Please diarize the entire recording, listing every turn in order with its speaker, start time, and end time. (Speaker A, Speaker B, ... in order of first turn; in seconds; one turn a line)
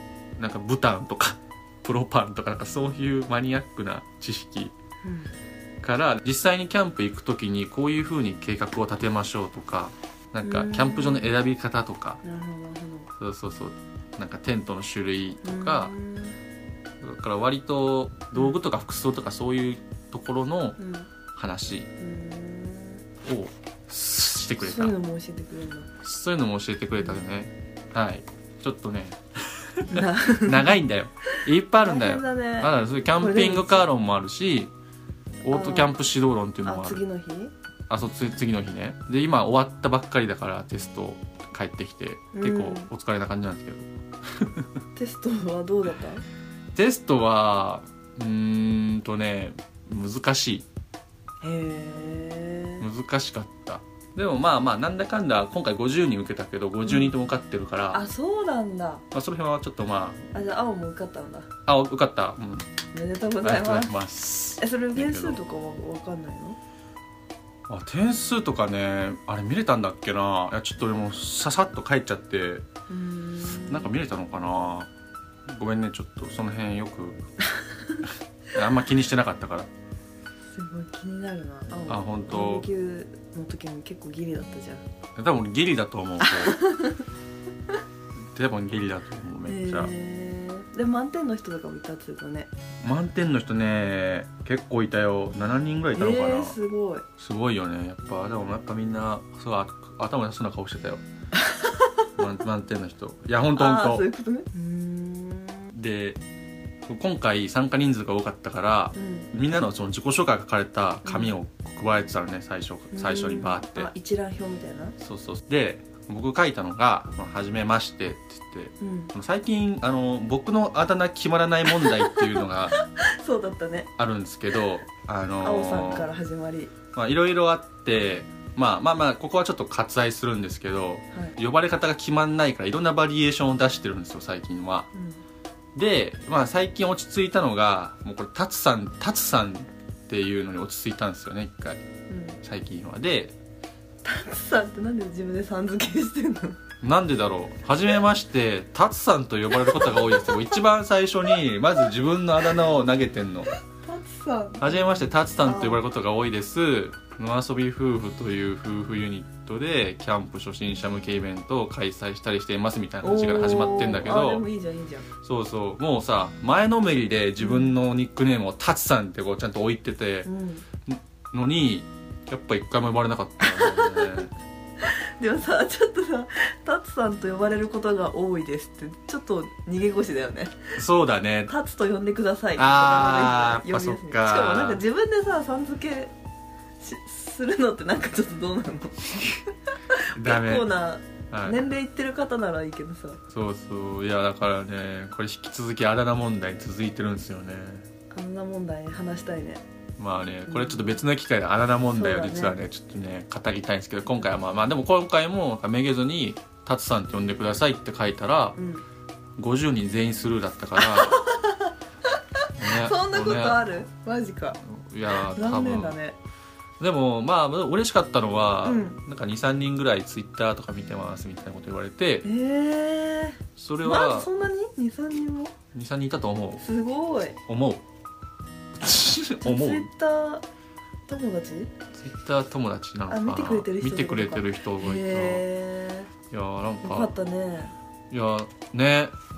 Speaker A: 0.4-4.7
Speaker B: 5.0-5.3
Speaker A: 5.8-12.2
Speaker B: 10.4-11.3
Speaker B: 12.2-13.1
Speaker A: 13.2-15.9
Speaker B: 15.4-16.4
Speaker A: 17.0-20.8
Speaker B: 20.8-21.1
Speaker A: 21.3-21.9
Speaker B: 22.0-23.0
Speaker A: 23.2-24.9
Speaker B: 24.6-25.9
Speaker A: 26.0-34.7
Speaker B: 29.9-30.8
Speaker B: 31.8-33.9
Speaker A: 35.4-37.0
Speaker B: 35.5-35.9
Speaker B: 36.6-37.5
Speaker A: 37.9-44.7
Speaker B: 42.3-42.9
Speaker B: 45.0-46.2
Speaker A: 46.7-50.6
Speaker B: 51.4-52.9
Speaker A: 52.8-58.0
Speaker B: 56.8-57.1
Speaker B: 57.9-59.0
Speaker A: 59.1-60.2
Speaker B: 60.3-61.5
Speaker A: 61.6-62.7
Speaker B: 62.9-63.9
Speaker A: 63.4-65.4
Speaker B: 64.6-66.6
Speaker A: 67.7-72.6
Speaker B: 72.9-73.9
Speaker A: 73.5-74.9
Speaker A: 75.5-77.2
Speaker A: 78.5-79.7
Speaker B: 80.5-84.8
Speaker A: 81.9-82.7
Speaker A: 85.2-86.6
Speaker B: 86.2-87.0
Speaker A: 88.3-89.9
Speaker B: 89.4-92.5
Speaker A: 92.8-96.6
Speaker B: 95.9-97.0
Speaker A: 97.2-101.0
Speaker B: 101.4-101.9
Speaker A: 102.2-104.0
Speaker B: 103.5-105.7
Speaker A: 105.7-106.2
Speaker A: 106.8-113.9
Speaker B: 108.9-109.3
Speaker B: 111.0-111.3
Speaker B: 112.9-114.9
Speaker A: 115.0-122.8
Speaker B: 118.8-119.1
Speaker B: 121.7-123.9
Speaker A: 124.0-126.1
Speaker B: 125.4-126.7
Speaker A: 126.9-134.9
Speaker B: 134.9-135.2
Speaker A: 135.7-141.8
Speaker B: 142.1-142.4
Speaker A: 142.4-143.3
Speaker B: 144.0-146.6
Speaker A: 146.8-153.5
Speaker B: 149.6-150.6
Speaker B: 153.8-155.8
Speaker A: 154.6-164.4
Speaker B: 163.0-165.1
Speaker A: 165.2-170.3
Speaker B: 167.4-167.7
Speaker B: 170.2-170.6
Speaker A: 170.9-174.3
Speaker B: 173.4-174.3
Speaker B: 174.8-180.7
Speaker A: 180.7-181.5
Speaker B: 181.5-186.1
Speaker A: 182.5-184.8
Speaker B: 186.8-193.2
Speaker A: 190.1-190.7
Speaker A: 191.3-191.6
Speaker A: 193.3-197.8
Speaker B: 198.1-199.6
Speaker A: 200.0-208.6
Speaker B: 200.5-201.0
Speaker B: 201.9-202.6
Speaker B: 208.6-208.8
Speaker A: 209.4-211.2
Speaker B: 210.8-211.7
Speaker A: 212.6-213.7
Speaker B: 212.6-214.6
Speaker A: 214.6-216.0
Speaker B: 215.2-216.2
Speaker A: 216.8-222.2
Speaker B: 218.6-219.0
Speaker B: 222.2-225.5
Speaker A: 223.6-224.3
Speaker A: 225.7-226.6
Speaker B: 226.6-227.4
Speaker A: 227.5-227.8
Speaker A: 228.8-229.9
Speaker B: 229.4-230.4
Speaker B: 231.1-231.7
Speaker A: 231.9-235.4
Speaker B: 233.1-236.1
Speaker A: 236.3-237.1
Speaker B: 236.8-237.7
Speaker A: 238.1-239.1